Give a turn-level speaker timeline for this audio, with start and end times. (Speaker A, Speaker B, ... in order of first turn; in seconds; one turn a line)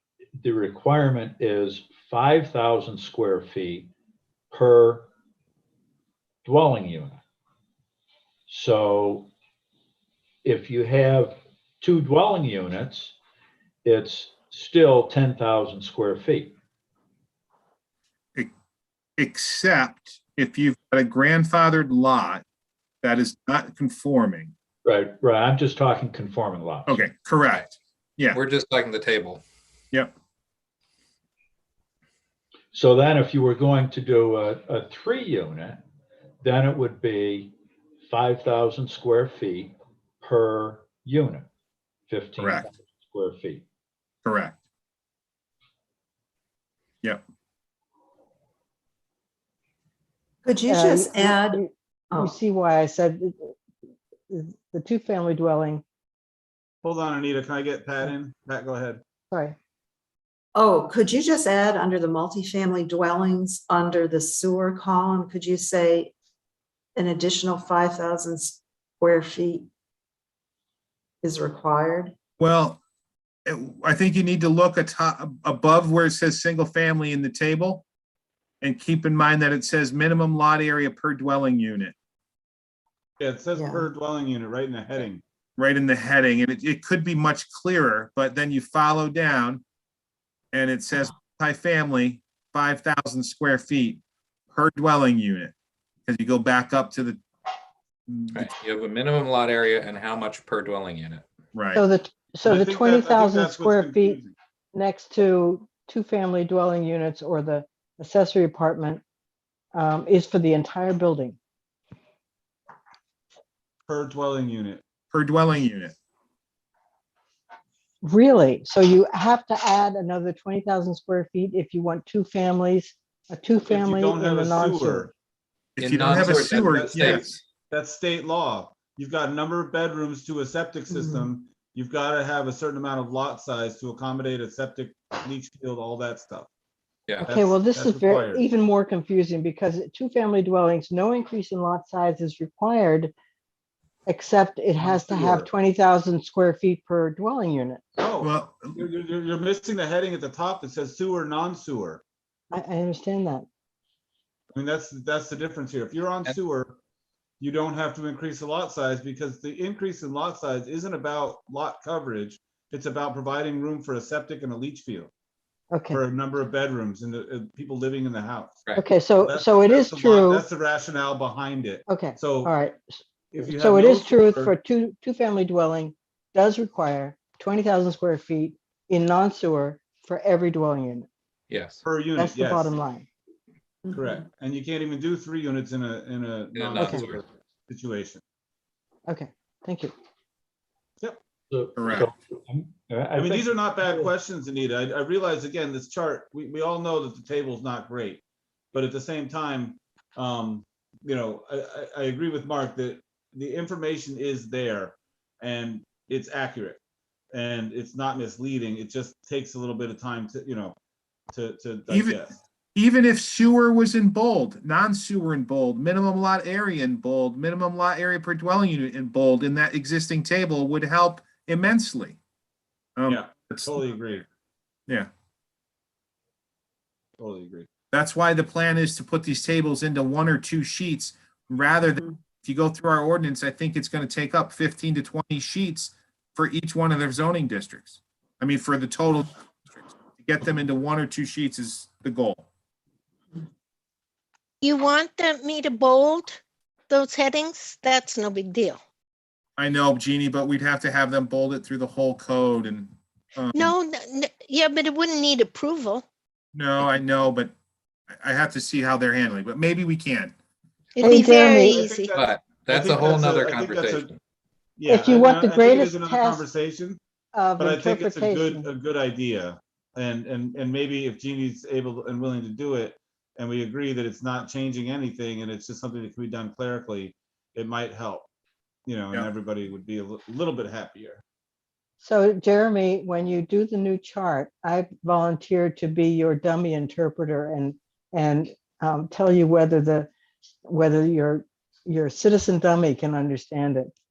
Speaker A: 0.4-3.9
Speaker A: 4.5-5.1
Speaker A: 6.4-7.2
Speaker A: 8.5-9.3
Speaker A: 10.4-13.2
Speaker A: 13.8-16.5
Speaker B: 19.2-22.4
Speaker B: 23.0-24.5
Speaker A: 24.8-27.0
Speaker B: 26.9-28.4
Speaker C: 28.3-29.4
Speaker A: 32.7-35.8
Speaker A: 36.4-37.5
Speaker A: 38.0-41.5
Speaker A: 42.1-43.6
Speaker B: 42.4-42.7
Speaker B: 44.2-44.6
Speaker D: 50.4-52.3
Speaker E: 50.7-53.5
Speaker E: 54.3-55.8
Speaker F: 56.8-59.0
Speaker E: 59.3-59.5
Speaker D: 60.5-66.1
Speaker D: 66.9-69.7
Speaker D: 71.2-72.1
Speaker B: 72.4-72.8
Speaker B: 73.5-77.8
Speaker B: 78.6-81.9
Speaker F: 83.2-85.2
Speaker D: 83.5-83.8
Speaker B: 85.6-89.6
Speaker B: 90.5-94.0
Speaker B: 94.5-95.5
Speaker B: 96.1-97.2
Speaker B: 98.1-98.5
Speaker C: 98.3-101.2
Speaker B: 101.5-101.8
Speaker E: 101.7-104.2
Speaker F: 102.4-104.3
Speaker E: 104.7-109.0
Speaker E: 109.7-111.4
Speaker F: 113.9-114.8
Speaker B: 115.1-115.9
Speaker E: 118.0-125.0
Speaker F: 123.7-125.1
Speaker B: 125.8-127.2
Speaker C: 125.8-127.3
Speaker F: 126.1-136.5
Speaker D: 130.9-131.2
Speaker E: 137.2-143.1
Speaker F: 137.2-138.4
Speaker E: 144.1-147.8
Speaker F: 144.8-145.5
Speaker F: 148.0-152.0
Speaker B: 148.2-148.8
Speaker E: 152.5-153.4
Speaker F: 154.5-156.8
Speaker F: 157.4-165.1
Speaker E: 165.7-166.0
Speaker F: 165.9-172.5
Speaker E: 168.7-170.4
Speaker E: 171.9-173.0
Speaker F: 173.3-174.5
Speaker E: 173.6-181.1
Speaker C: 181.5-181.8
Speaker F: 181.8-182.7
Speaker E: 182.1-183.1
Speaker F: 183.9-188.2
Speaker C: 186.6-187.2
Speaker E: 186.7-187.0
Speaker E: 189.1-189.9
Speaker A: 191.5-194.1
Speaker B: 191.8-192.1
Speaker F: 193.2-198.2
Speaker F: 198.7-206.8
Speaker F: 207.3-210.7
Speaker F: 211.3-212.4
Speaker B: 211.9-212.2
Speaker B: 212.7-222.2
Speaker B: 223.0-224.0
Speaker F: 223.1-224.2
Speaker F: 227.2-227.7
Speaker B: 227.9-242.5
Speaker G: 244.6-248.8
Speaker B: 249.6-253.7
Speaker G: 253.5-256.0
Speaker B: 256.5-257.5
Speaker B: 258.1-260.3
Speaker G: 260.9-262.2
Speaker E: 261.0-261.9
Speaker F: 261.1-264.1
Speaker C: 262.1-264.2
Speaker F: 264.8-267.0
Speaker E: 264.9-266.4
Speaker E: 267.3-268.6
Speaker F: 267.6-278.3
Speaker F: 278.9-281.2
Speaker E: 282.0-290.1
Speaker E: 290.7-293.9